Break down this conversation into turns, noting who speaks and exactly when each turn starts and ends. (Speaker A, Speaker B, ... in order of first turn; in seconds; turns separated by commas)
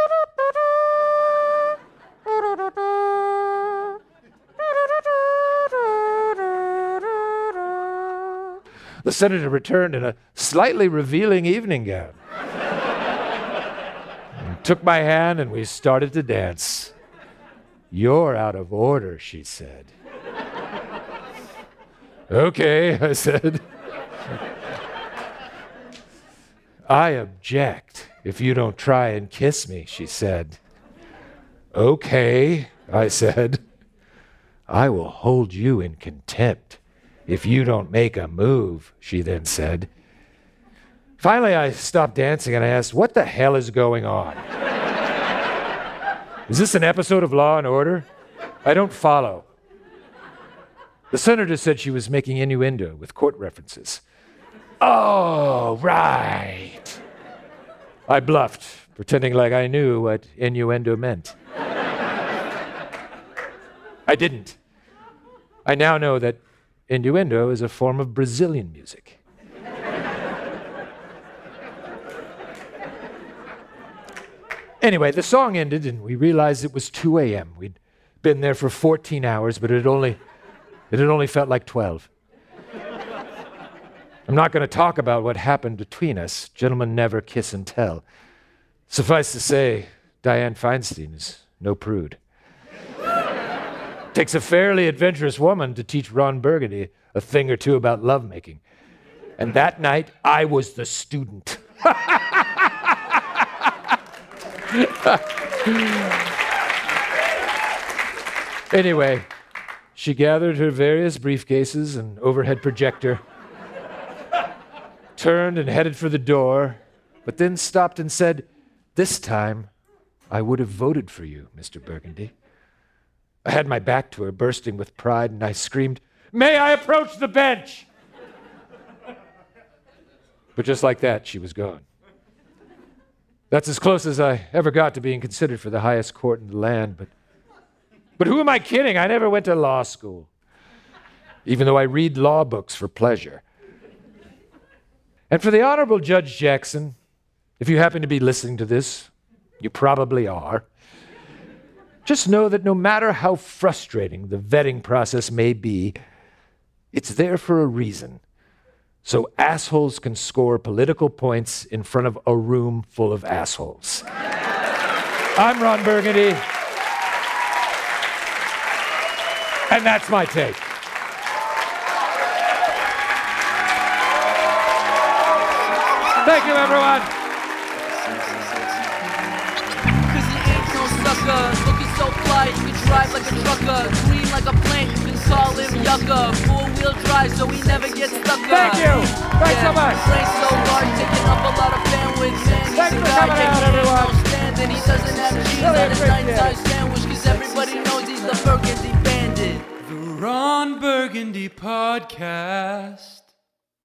Speaker A: 9.0-12.2, Speaker A: 14.4-16.9, Speaker A: 17.9-19.9, Speaker A: 22.3-23.6, Speaker A: 26.9-30.6, Speaker A: 31.7-33.6, Speaker A: 34.7-39.9, Speaker A: 41.2-44.4, Speaker A: 46.5-48.1, Speaker A: 48.6-49.5, Speaker A: 51.1-54.0, Speaker A: 54.8-57.0, Speaker A: 58.1-61.4, Speaker A: 64.1-64.6, Speaker A: 65.7-69.2, Speaker A: 74.8-80.2, Speaker A: 80.9-82.1, Speaker A: 84.3-88.0, Speaker A: 88.9-92.2, Speaker A: 94.1-98.6, Speaker A: 99.4-102.7, Speaker A: 104.7-106.2, Speaker A: 108.7-109.3, Speaker A: 110.0-113.2, Speaker A: 115.2-119.7, Speaker A: 120.3-122.3, Speaker A: 123.5-127.9, Speaker A: 130.6-131.8, Speaker A: 133.5-137.1, Speaker A: 138.2-140.3, Speaker A: 141.5-143.4, Speaker A: 145.3-146.9, Speaker A: 147.6-149.1, Speaker A: 149.6-150.7, Speaker A: 152.1-156.0, Speaker A: 156.9-158.2, Speaker A: 159.0-164.0, Speaker A: 165.4-166.4, Speaker A: 169.7-170.6, Speaker B: 175.4-177.1, Speaker A: 176.2-177.1, Speaker B: 177.7-181.7, Speaker C: 180.1-199.7, Speaker B: 182.4-184.2, Speaker B: 184.9-186.5, Speaker B: 187.4-189.3, Speaker A: 188.5-190.1, Speaker B: 190.0-191.5, Speaker B: 192.2-193.6, Speaker A: 192.7-194.2, Speaker B: 194.6-196.1, Speaker A: 195.6-196.6, Speaker B: 197.1-198.7, Speaker B: 199.8-203.3